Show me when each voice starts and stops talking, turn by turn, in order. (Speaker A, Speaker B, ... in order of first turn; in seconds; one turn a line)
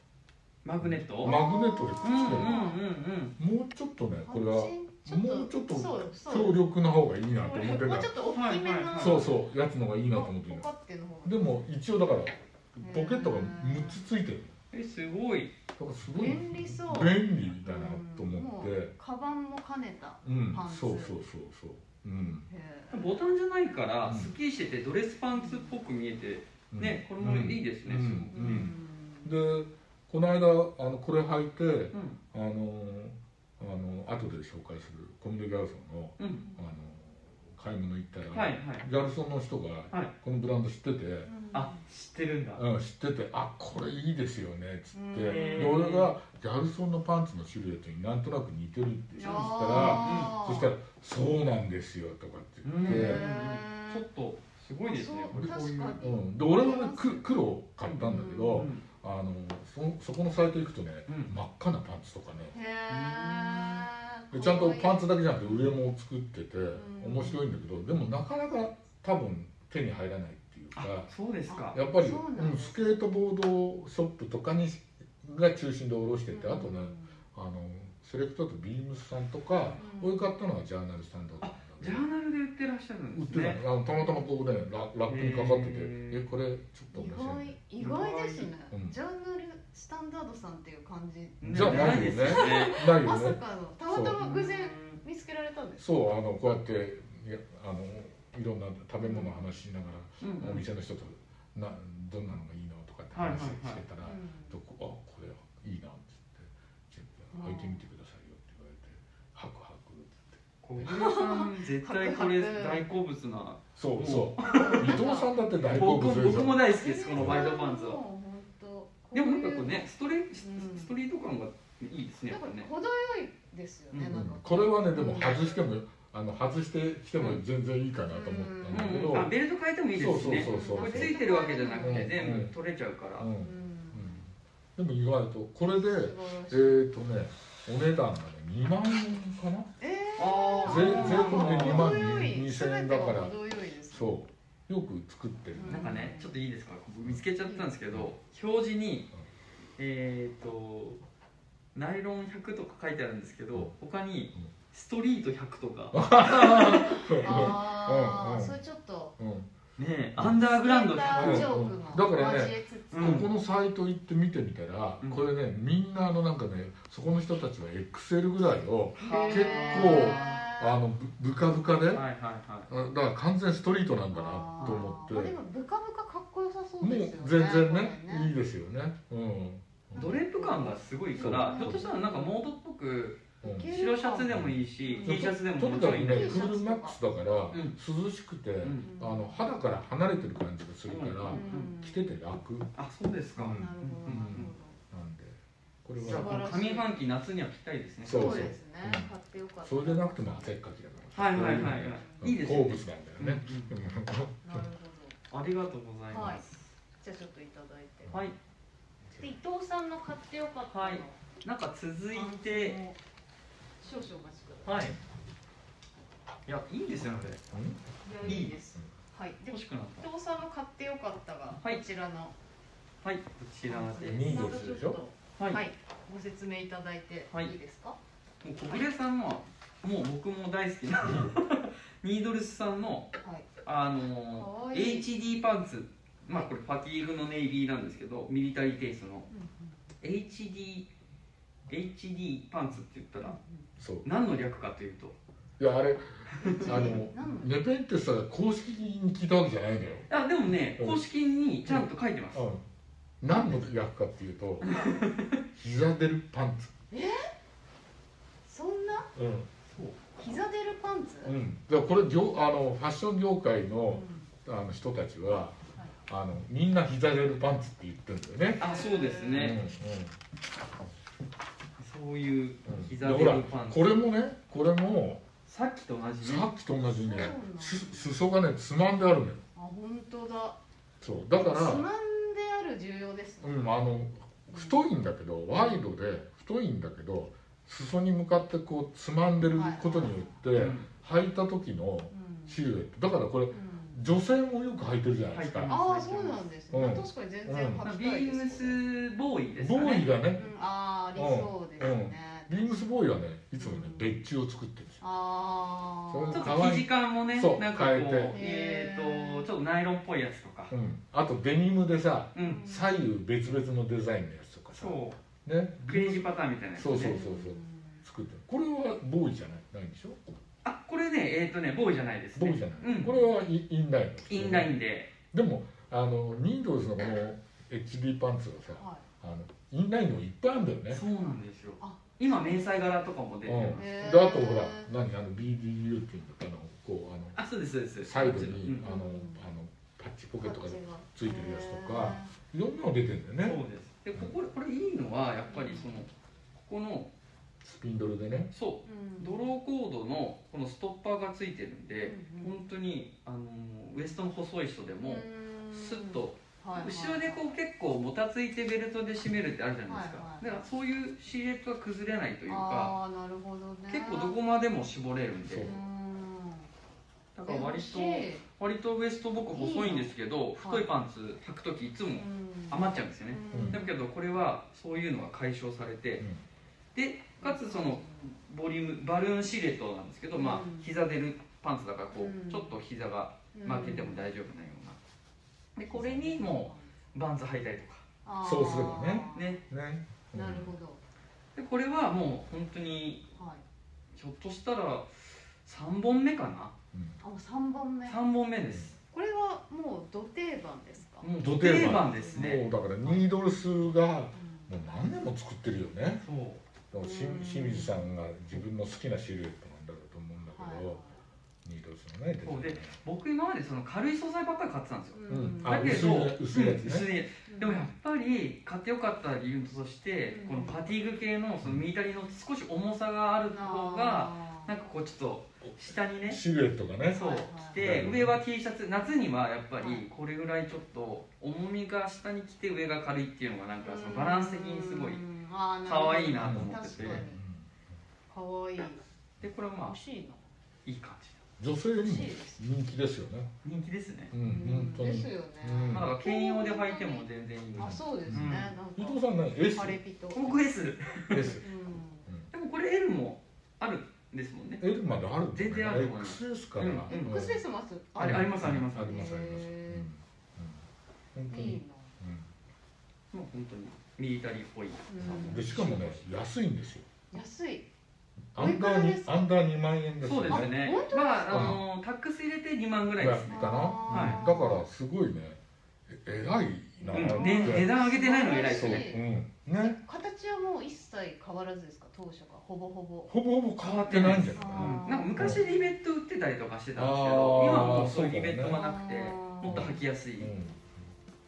Speaker A: 0.6-1.4
Speaker B: 0.8-2.6
Speaker C: 1.2-2.8
Speaker A: 2.0-3.4
Speaker B: 3.4-8.1
Speaker C: 4.2-6.6
Speaker C: 7.4-9.4
Speaker A: 8.3-9.2
Speaker B: 8.9-10.7
Speaker C: 10.1-11.7
Speaker B: 11.2-14.6
Speaker C: 12.8-14.0
Speaker A: 14.7-15.6
Speaker B: 15.8-18.9
Speaker C: 16.1-21.2
Speaker B: 20.2-22.5
Speaker C: 22.5-23.2
Speaker A: 22.9-28.7
Speaker B: 24.1-24.3
Speaker C: 25.3-25.8
Speaker B: 26.7-41.3
Speaker C: 28.3-29.3
Speaker A: 31.9-32.2
Speaker A: 36.2-36.4
Speaker A: 38.3-38.9
Speaker C: 41.3-41.8
Speaker A: 41.5-42.6
Speaker B: 42.6-53.3
Speaker C: 44.9-45.9
Speaker A: 45.3-46.1
Speaker C: 49.2-50.7
Speaker A: 49.2-50.4
Speaker A: 52.6-56.1
Speaker C: 52.8-54.0
Speaker C: 54.9-57.3
Speaker B: 55.3-62.5
Speaker A: 57.9-58.9
Speaker C: 58.0-58.7
Speaker A: 61.1-61.3
Speaker C: 62.5-65.2
Speaker A: 62.9-63.9
Speaker B: 64.3-71.1
Speaker C: 66.7-67.5
Speaker A: 70.8-71.8
Speaker C: 71.5-73.0
Speaker B: 71.7-82.1
Speaker C: 76.3-77.2
Speaker C: 79.8-80.3
Speaker A: 81.4-83.6
Speaker B: 83.1-87.6
Speaker A: 85.1-86.3
Speaker C: 86.9-95.9
Speaker A: 87.8-88.5
Speaker B: 88.7-89.0
Speaker A: 91.4-92.8
Speaker B: 91.5-94.2
Speaker A: 94.2-95.0
Speaker B: 95.8-110.4
Speaker C: 99.0-99.4
Speaker A: 100.2-100.7
Speaker A: 103.1-103.8
Speaker C: 104.0-104.6
Speaker C: 107.3-107.8
Speaker A: 110.6-115.0
Speaker C: 110.8-112.9
Speaker B: 113.8-117.5
Speaker C: 114.4-115.3
Speaker A: 115.6-118.0
Speaker C: 116.6-120.9
Speaker A: 119.1-122.7
Speaker C: 122.3-125.6
Speaker A: 123.9-124.2
Speaker B: 124.1-129.3
Speaker C: 128.1-129.1
Speaker A: 128.7-133.3
Speaker B: 129.9-131.2
Speaker C: 130.4-132.3
Speaker B: 131.8-132.6
Speaker B: 133.2-139.7
Speaker C: 133.4-134.2
Speaker C: 135.6-136.8
Speaker C: 139.8-144.2
Speaker A: 140.2-142.0
Speaker B: 140.6-143.4
Speaker B: 143.9-146.1
Speaker C: 145.6-146.4
Speaker A: 145.7-149.1
Speaker A: 149.8-151.0
Speaker A: 151.8-157.5
Speaker B: 155.9-158.6
Speaker C: 156.7-159.2
Speaker B: 159.2-159.5
Speaker A: 159.8-161.6
Speaker B: 160.2-160.4
Speaker C: 160.4-163.3
Speaker B: 161.1-172.1
Speaker A: 162.9-163.3
Speaker A: 168.9-170.4
Speaker C: 169.0-170.8
Speaker A: 171.9-172.7
Speaker B: 172.7-175.4
Speaker C: 174.1-178.3
Speaker A: 174.6-174.9
Speaker B: 176.8-180.2
Speaker C: 179.9-182.4
Speaker A: 179.9-186.5
Speaker B: 181.2-181.8
Speaker C: 183.4-187.0
Speaker B: 183.4-183.7
Speaker B: 184.3-192.7
Speaker A: 187.5-187.8
Speaker A: 188.6-188.9
Speaker C: 188.8-189.6
Speaker A: 190.9-191.7
Speaker C: 191.3-192.1
Speaker A: 192.8-194.5
Speaker B: 193.4-196.5
Speaker C: 193.4-194.8
Speaker C: 196.0-196.9
Speaker A: 196.0-198.5
Speaker B: 198.0-199.1
Speaker C: 198.1-200.6
Speaker B: 199.6-204.6
Speaker A: 201.1-203.7
Speaker C: 201.7-202.2
Speaker C: 204.4-205.2
Speaker A: 205.3-206.6
Speaker C: 206.1-206.4
Speaker C: 207.0-208.2
Speaker B: 208.1-208.3
Speaker B: 209.1-209.3
Speaker C: 209.2-211.2
Speaker A: 210.7-212.8
Speaker C: 212.1-213.0
Speaker C: 213.8-214.9
Speaker A: 214.7-214.9
Speaker A: 216.4-217.4
Speaker B: 217.5-218.9
Speaker C: 218.0-222.3
Speaker A: 218.2-218.6
Speaker A: 219.5-220.1
Speaker A: 223.0-224.6
Speaker C: 223.7-228.0
Speaker B: 224.0-225.0
Speaker A: 228.4-233.1
Speaker C: 233.2-233.5
Speaker A: 233.6-239.3
Speaker C: 234.3-235.1
Speaker C: 239.3-239.8
Speaker A: 240.0-240.9
Speaker A: 241.7-243.4
Speaker C: 243.2-243.7
Speaker B: 243.8-244.1
Speaker A: 244.1-245.2
Speaker B: 245.6-250.1
Speaker A: 246.3-246.9
Speaker C: 246.4-247.5
Speaker A: 250.1-252.4
Speaker B: 250.8-251.1
Speaker B: 251.6-252.6
Speaker B: 253.2-254.7
Speaker C: 253.3-253.7
Speaker A: 254.6-255.4
Speaker B: 255.5-256.7
Speaker C: 256.9-257.3
Speaker C: 258.5-259.1
Speaker B: 259.1-259.5
Speaker A: 259.7-260.0
Speaker C: 260.2-261.4
Speaker B: 261.2-268.6
Speaker C: 263.9-264.3
Speaker C: 268.6-269.5
Speaker A: 268.6-269.6
Speaker B: 269.3-270.2
Speaker A: 271.8-274.0
Speaker B: 272.6-275.2
Speaker A: 275.4-276.5
Speaker B: 276.2-279.4
Speaker C: 276.8-278.1
Speaker C: 279.6-280.6
Speaker B: 281.0-281.9
Speaker C: 281.4-283.6
Speaker B: 283.4-295.8
Speaker C: 284.5-284.8
Speaker C: 289.5-290.4
Speaker A: 290.6-290.9
Speaker C: 292.1-292.6
Speaker C: 293.5-294.0
Speaker A: 295.3-296.4
Speaker C: 295.7-298.8
Speaker B: 296.7-297.8
Speaker A: 297.8-300.1
Speaker B: 299.6-300.5
Speaker C: 300.4-302.9
Speaker B: 301.1-305.0
Speaker C: 303.6-304.2
Speaker C: 305.0-306.6
Speaker B: 306.1-308.4
Speaker A: 306.3-310.7
Speaker C: 308.3-309.5
Speaker B: 310.7-320.2
Speaker A: 312.4-312.6
Speaker C: 312.4-312.9
Speaker A: 314.8-315.2
Speaker A: 315.9-317.2
Speaker C: 316.9-318.0
Speaker A: 320.6-323.2
Speaker B: 322.4-324.7
Speaker A: 324.3-325.1
Speaker B: 325.3-331.0
Speaker C: 328.8-329.1
Speaker A: 330.9-334.3
Speaker C: 331.8-332.6
Speaker B: 333.4-337.4
Speaker C: 333.8-334.9
Speaker A: 337.4-338.9
Speaker B: 338.0-343.6
Speaker C: 338.8-339.4
Speaker C: 340.4-342.3
Speaker A: 343.4-347.1
Speaker C: 345.4-346.1
Speaker B: 347.6-348.5
Speaker A: 348.5-362.9
Speaker C: 348.9-349.4
Speaker C: 352.0-352.6
Speaker C: 355.0-357.5
Speaker C: 359.9-360.6
Speaker C: 362.5-364.4
Speaker A: 363.9-365.7
Speaker B: 365.4-365.8
Speaker C: 365.6-366.7
Speaker A: 367.4-376.2
Speaker C: 367.4-368.4
Speaker C: 369.5-370.9
Speaker C: 372.2-373.9
Speaker B: 373.5-373.8
Speaker B: 376.2-376.4
Speaker A: 376.9-385.0
Speaker C: 377.4-378.3
Speaker C: 380.4-380.9
Speaker C: 382.1-382.7
Speaker C: 383.5-384.2
Speaker A: 385.8-388.1
Speaker C: 385.9-386.9
Speaker C: 388.2-389.6
Speaker B: 388.4-390.8
Speaker A: 389.3-389.6
Speaker C: 390.3-391.0
Speaker A: 391.6-393.3
Speaker C: 393.4-393.6
Speaker A: 394.1-396.7
Speaker B: 396.9-397.2
Speaker C: 397.2-398.2
Speaker A: 398.1-398.9
Speaker C: 399.1-401.3
Speaker A: 401.2-402.6
Speaker B: 401.4-406.3
Speaker C: 401.8-403.3
Speaker C: 404.3-404.8
Speaker A: 406.2-406.6
Speaker B: 406.9-411.0
Speaker C: 407.0-408.1
Speaker C: 410.5-411.2
Speaker B: 411.6-413.0
Speaker A: 412.4-426.4
Speaker C: 415.1-416.2
Speaker B: 415.3-417.1
Speaker C: 417.5-417.9
Speaker C: 420.3-420.9
Speaker C: 423.5-424.9
Speaker B: 425.9-427.2
Speaker A: 427.1-435.2
Speaker C: 427.1-428.0
Speaker B: 427.8-428.3
Speaker C: 429.8-430.1
Speaker C: 433.8-437.4
Speaker A: 435.9-437.2
Speaker B: 436.4-437.7
Speaker C: 438.3-439.0
Speaker A: 439.4-439.9
Speaker C: 439.8-440.4
Speaker A: 440.9-441.4
Speaker B: 441.6-443.5
Speaker C: 442.0-442.6
Speaker A: 443.6-444.3
Speaker B: 444.3-446.1
Speaker C: 444.4-450.7
Speaker A: 445.9-448.7
Speaker B: 447.8-450.0
Speaker A: 450.3-451.6
Speaker B: 451.3-451.7
Speaker C: 451.6-452.3
Speaker B: 452.3-452.5
Speaker A: 452.5-454.8
Speaker B: 454.8-457.6
Speaker A: 455.5-457.4
Speaker C: 457.1-460.1
Speaker A: 458.1-459.3
Speaker B: 458.2-462.5
Speaker C: 461.5-462.1
Speaker A: 463.3-466.3
Speaker C: 465.1-465.7
Speaker B: 465.3-467.1
Speaker C: 467.3-467.9
Speaker B: 468.5-470.8
Speaker C: 468.6-469.4
Speaker A: 470.2-474.4
Speaker C: 470.5-471.8
Speaker B: 471.5-471.8
Speaker B: 473.2-477.9
Speaker C: 473.5-474.9
Speaker C: 477.0-479.2
Speaker A: 477.1-479.1
Speaker B: 478.7-480.0
Speaker C: 479.8-483.3
Speaker B: 483.3-485.6
Speaker A: 483.8-490.5
Speaker C: 484.1-485.9
Speaker B: 486.9-488.8
Speaker C: 488.6-489.9
Speaker B: 489.7-491.1